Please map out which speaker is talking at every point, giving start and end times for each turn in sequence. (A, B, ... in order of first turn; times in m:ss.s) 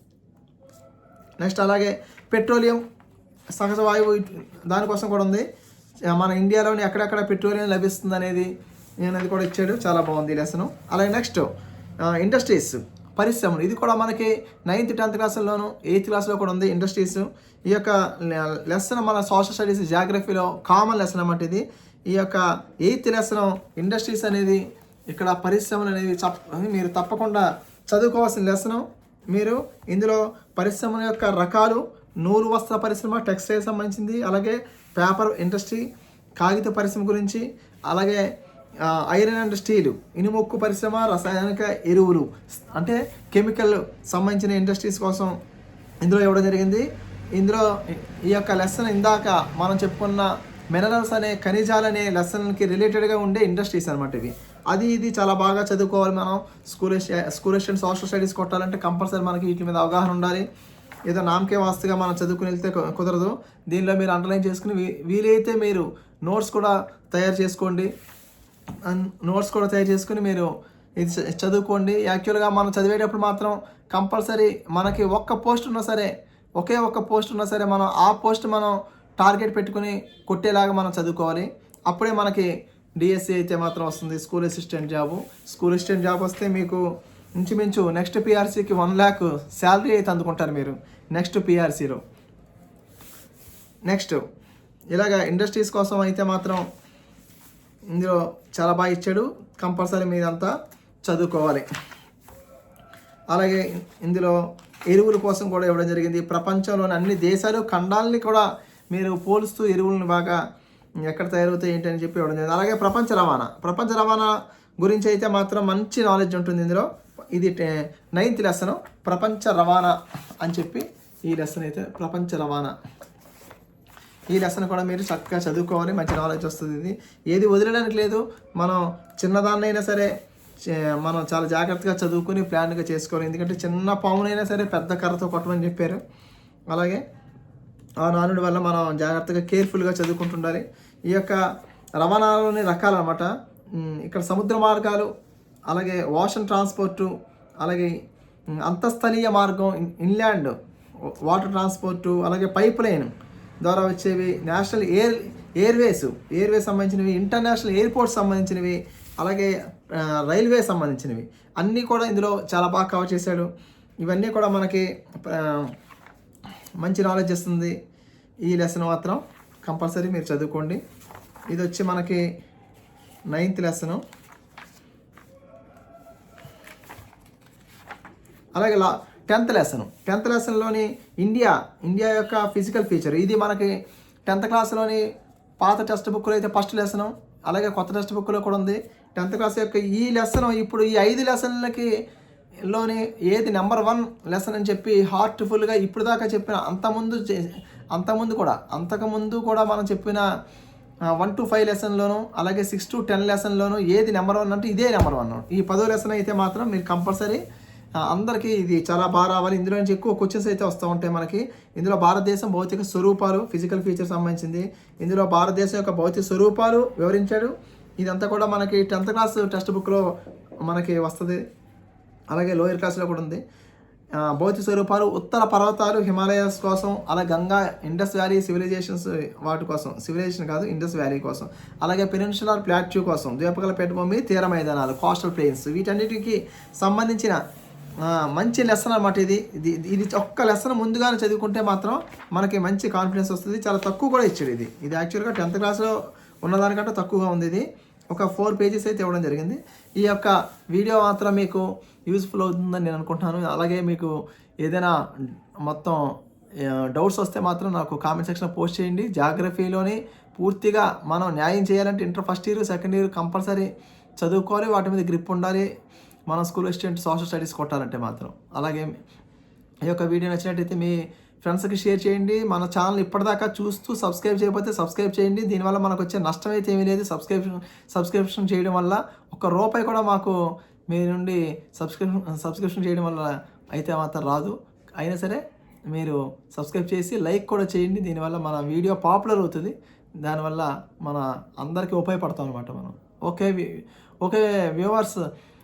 0:01.4-0:02.8 A
0:03.6-0:05.4 A
0:06.1-0:08.5 A
0:09.0-0:11.5 A
0:12.0-0:35.8 A
0:36.4-0:38.2 A
0:38.8-0:45.3 A
0:46.0-1:00.4 A
1:01.1-1:07.9 A
1:08.8-1:22.5 A
1:23.0-1:26.8 A
1:27.4-1:32.0 A
1:33.9-1:34.2 A
1:34.9-1:36.6 A
1:37.9-1:40.5 A
1:41.0-1:41.6 A
1:43.3-1:44.4 A
1:44.9-1:50.4 A
1:51.0-2:02.7 A
2:04.3-2:10.1 A
2:10.6-2:16.0 A
2:16.7-2:17.0 A
2:18.0-2:21.4 A
2:22.0-2:25.1 A
2:25.7-2:27.9 A
2:28.6-2:30.5 A
2:31.1-2:33.1 A
2:33.6-2:43.5 A
2:44.0-2:45.7 A
2:46.8-2:47.7 A
2:48.4-2:50.8 A
2:51.5-2:52.2 A
2:53.3-2:54.0 A
2:58.6-3:03.8 A
3:04.3-3:05.0 A
3:05.6-3:11.9 A
3:12.7-3:20.2 A
3:21.1-3:27.4 A
3:28.0-3:40.1 A
3:40.6-3:41.4 A
3:42.3-3:43.4 A
3:44.2-3:57.4 A
3:58.0-4:23.7 A
4:24.2-4:25.7 A
4:26.3-4:28.9 A
4:29.8-4:40.4 A
4:40.9-4:55.2 A